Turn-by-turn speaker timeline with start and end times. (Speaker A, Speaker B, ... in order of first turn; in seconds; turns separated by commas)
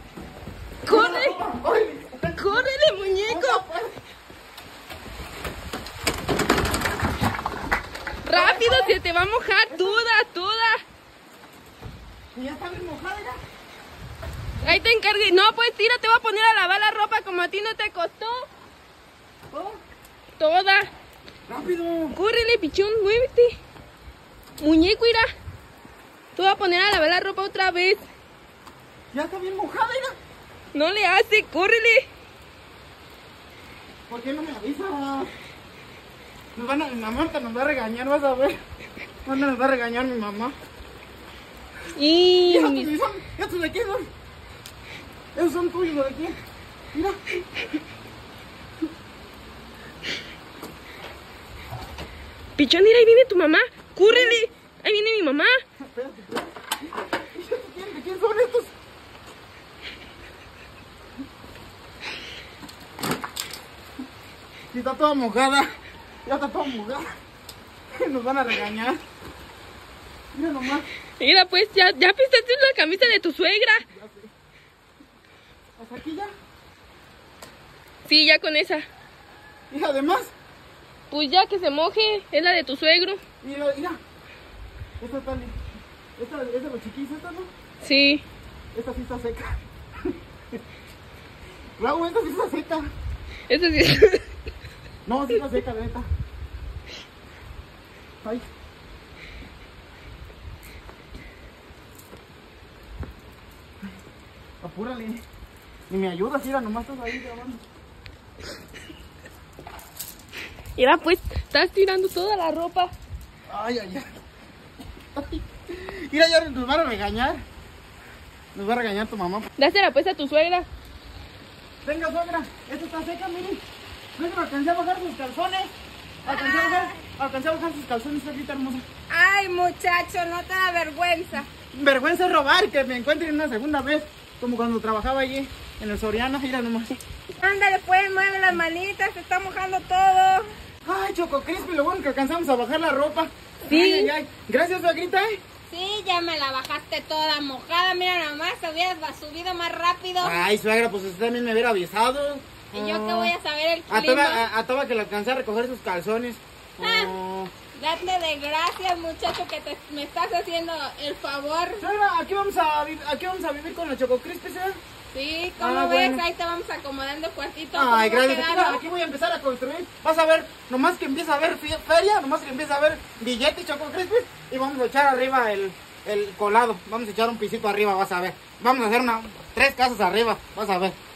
Speaker A: 0.8-1.4, Speaker B: 0.9-2.7, Speaker A: 2.4-3.6, Speaker B: 3.2-4.0, Speaker A: 8.2-10.8, Speaker B: 8.3-9.0, Speaker B: 9.7-10.0, Speaker B: 12.3-13.4, Speaker A: 14.6-18.5, Speaker B: 19.5-19.8, Speaker A: 20.4-20.9, Speaker B: 21.5-22.2, Speaker A: 22.1-23.6, Speaker A: 24.6-25.3, Speaker A: 26.4-28.0, Speaker B: 29.1-30.2, Speaker A: 30.7-32.1, Speaker B: 34.1-35.3, Speaker B: 36.5-38.6, Speaker B: 39.2-40.5, Speaker A: 42.0-42.9, Speaker B: 42.5-44.1, Speaker B: 45.4-46.4, Speaker B: 46.9-47.2, Speaker A: 52.6-55.6, Speaker B: 54.1-54.4, Speaker B: 55.8-58.7, Speaker B: 64.7-65.7, Speaker B: 66.2-67.2, Speaker B: 67.9-69.0, Speaker B: 70.3-70.9, Speaker A: 71.2-73.8, Speaker B: 73.9-74.3, Speaker B: 75.8-76.3, Speaker A: 78.1-78.9, Speaker B: 79.7-80.3, Speaker A: 81.1-83.2, Speaker B: 83.4-84.0, Speaker B: 85.0-85.6, Speaker B: 86.2-87.5, Speaker A: 87.8-88.2, Speaker B: 88.7-90.1, Speaker B: 91.8-92.9, Speaker A: 93.5-94.3, Speaker B: 95.0-96.1, Speaker B: 98.2-98.5, Speaker B: 104.6-105.2, Speaker B: 105.9-107.6, Speaker A: 110.8-112.9, Speaker B: 113.5-114.1, Speaker B: 115.1-117.5, Speaker B: 118.5-119.5, Speaker A: 119.6-120.7, Speaker B: 121.8-123.6, Speaker B: 124.2-125.7, Speaker C: 126.2-127.0, Speaker B: 126.2-128.8, Speaker C: 129.1-131.5, Speaker B: 131.7-136.9, Speaker C: 137.4-140.5, Speaker B: 140.8-145.4, Speaker A: 143.7-144.1, Speaker C: 145.7-150.4, Speaker B: 150.2-153.3, Speaker C: 152.7-154.5, Speaker B: 153.9-157.5, Speaker C: 156.8-157.2, Speaker C: 157.7-161.8, Speaker B: 161.8-164.8, Speaker C: 165.1-168.8, Speaker B: 165.6-166.2, Speaker B: 167.7-181.0